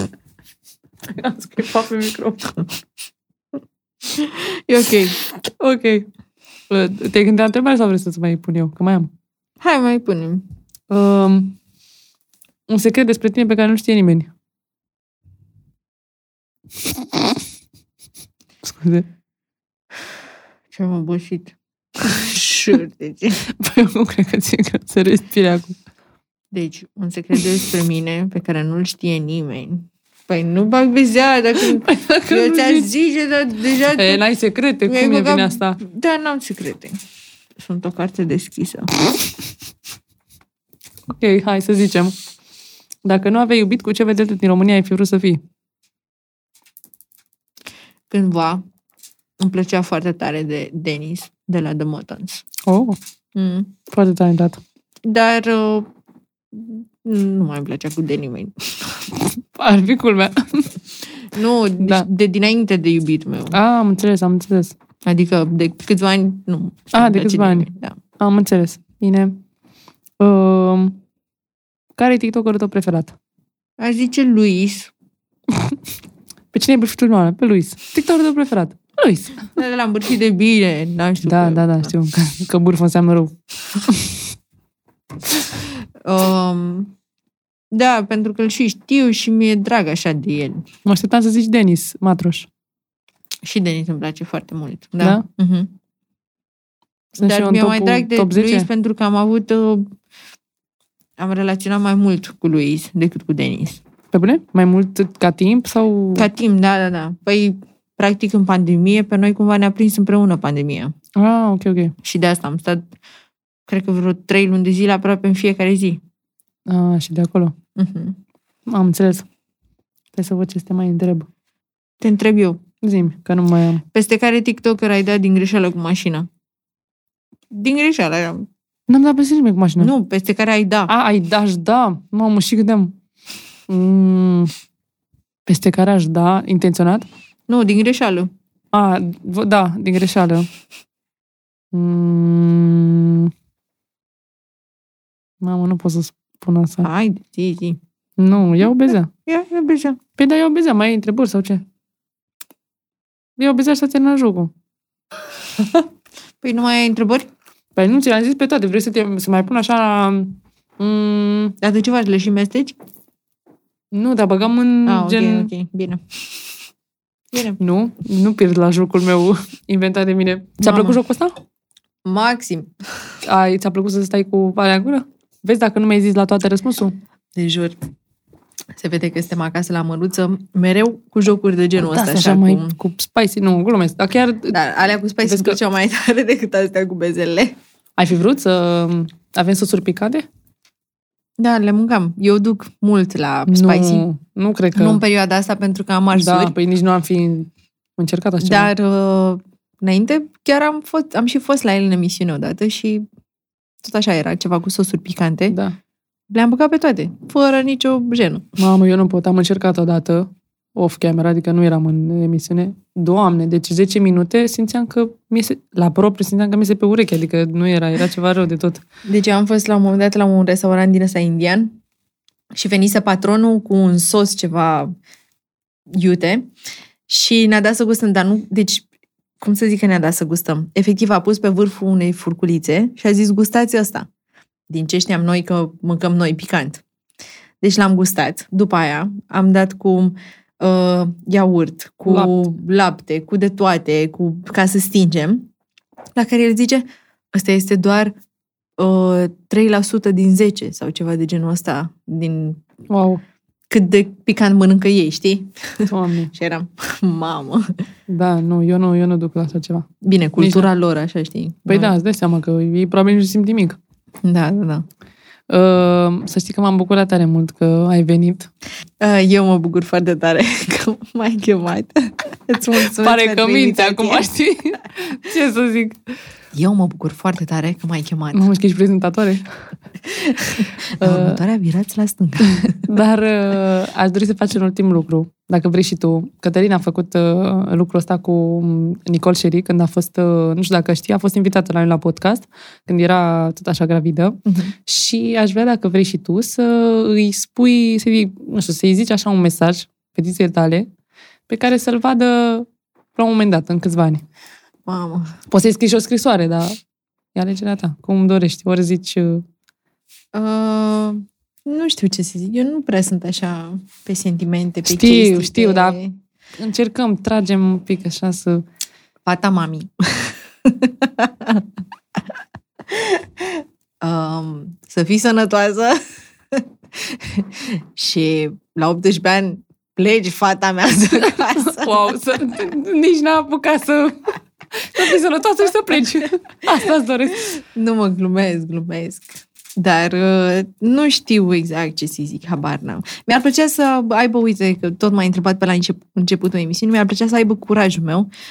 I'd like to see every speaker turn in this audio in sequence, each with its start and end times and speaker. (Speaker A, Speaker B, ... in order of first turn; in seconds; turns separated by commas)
Speaker A: 1.1-2.6, Speaker B: 4.0-5.2, Speaker A: 5.4-6.1, Speaker A: 6.7-9.1, Speaker B: 9.6-10.4, Speaker A: 10.9-11.6, Speaker A: 12.7-14.3, Speaker A: 18.6-19.1, Speaker B: 20.7-23.4, Speaker A: 23.6-25.8, Speaker B: 26.5-34.2, Speaker A: 31.6-32.9, Speaker A: 33.9-35.8, Speaker B: 34.9-37.0, Speaker B: 37.6-38.9, Speaker A: 41.1-42.1, Speaker A: 43.0-45.4, Speaker B: 48.1-48.6, Speaker B: 49.4-52.5, Speaker A: 52.6-53.0, Speaker B: 53.3-53.7, Speaker A: 53.9-54.6, Speaker B: 55.0-55.9, Speaker B: 56.5-59.1, Speaker A: 59.4-60.8, Speaker B: 61.2-63.5, Speaker A: 61.8-62.1, Speaker A: 63.5-64.7, Speaker B: 65.0-68.0, Speaker A: 66.9-69.4, Speaker A: 70.2-71.0, Speaker A: 72.0-73.1, Speaker B: 73.8-74.9, Speaker A: 76.5-79.5, Speaker B: 79.5-81.9, Speaker A: 81.2-83.3, Speaker A: 83.9-84.2, Speaker B: 85.3-86.9, Speaker B: 87.7-90.7, Speaker A: 90.8-92.5, Speaker B: 93.4-95.7, Speaker B: 97.2-99.9, Speaker A: 97.2-98.7, Speaker B: 101.2-103.8, Speaker A: 104.1-106.3, Speaker B: 106.1-110.9, Speaker A: 111.2-111.9, Speaker B: 112.0-112.9, Speaker B: 113.7-116.0, Speaker A: 116.7-117.5, Speaker B: 117.8-118.2, Speaker A: 118.7-119.2, Speaker A: 120.2-121.3, Speaker B: 122.0-122.6, Speaker A: 122.8-123.8, Speaker B: 123.9-126.3, Speaker B: 127.5-128.5, Speaker A: 128.9-129.9, Speaker B: 129.8-130.9, Speaker A: 130.9-132.9, Speaker A: 133.7-134.5, Speaker A: 135.5-137.1, Speaker B: 137.5-138.3, Speaker A: 138.7-140.5, Speaker A: 141.7-143.3, Speaker A: 145.4-146.9, Speaker B: 146.8-147.8, Speaker A: 148.2-149.1, Speaker B: 149.2-150.0, Speaker A: 150.2-151.6, Speaker A: 153.4-154.5, Speaker B: 155.6-155.8, Speaker B: 156.4-157.3, Speaker A: 157.8-161.6, Speaker B: 161.6-162.8, Speaker A: 163.9-165.5, Speaker B: 164.8-166.5, Speaker B: 167.3-167.6, Speaker A: 167.6-171.3, Speaker B: 170.6-171.0, Speaker B: 172.0-173.1, Speaker A: 173.2-176.9, Speaker B: 177.3-177.8, Speaker B: 178.7-182.7, Speaker A: 181.8-184.6, Speaker B: 184.5-187.6, Speaker A: 185.2-185.6, Speaker A: 188.0-190.2, Speaker B: 191.4-194.1, Speaker A: 193.5-195.0, Speaker B: 194.7-196.6, Speaker A: 196.1-198.7, Speaker B: 198.4-203.1, Speaker B: 203.8-205.6, Speaker A: 205.5-205.8, Speaker B: 206.3-208.6, Speaker A: 208.6-218.8, Speaker B: 219.1-221.8, Speaker B: 222.5-224.9, Speaker B: 225.9-226.5, Speaker B: 227.1-228.9, Speaker B: 229.4-234.1, Speaker B: 234.7-236.8, Speaker B: 237.6-245.5, Speaker A: 242.1-242.5, Speaker B: 246.2-248.1, Speaker B: 248.8-252.6, Speaker A: 252.9-253.2, Speaker B: 253.7-257.7, Speaker A: 255.9-256.3, Speaker A: 258.1-259.9, Speaker B: 260.0-261.9, Speaker A: 260.4-260.7, Speaker A: 261.6-263.8, Speaker B: 264.2-264.9, Speaker A: 265.5-268.5, Speaker B: 269.0-274.3, Speaker A: 272.9-276.0, Speaker B: 276.5-278.4, Speaker A: 278.3-279.4, Speaker B: 280.0-282.9, Speaker A: 281.0-281.4, Speaker A: 282.5-300.9, Speaker B: 294.4-294.7, Speaker A: 301.5-304.2, Speaker B: 304.9-305.3, Speaker A: 305.5-306.8, Speaker A: 307.3-309.4, Speaker B: 310.3-316.2, Speaker A: 314.9-316.0, Speaker A: 316.6-318.6, Speaker B: 319.2-321.6, Speaker B: 322.9-326.0, Speaker B: 326.5-332.1, Speaker A: 331.1-337.5, Speaker B: 337.4-348.3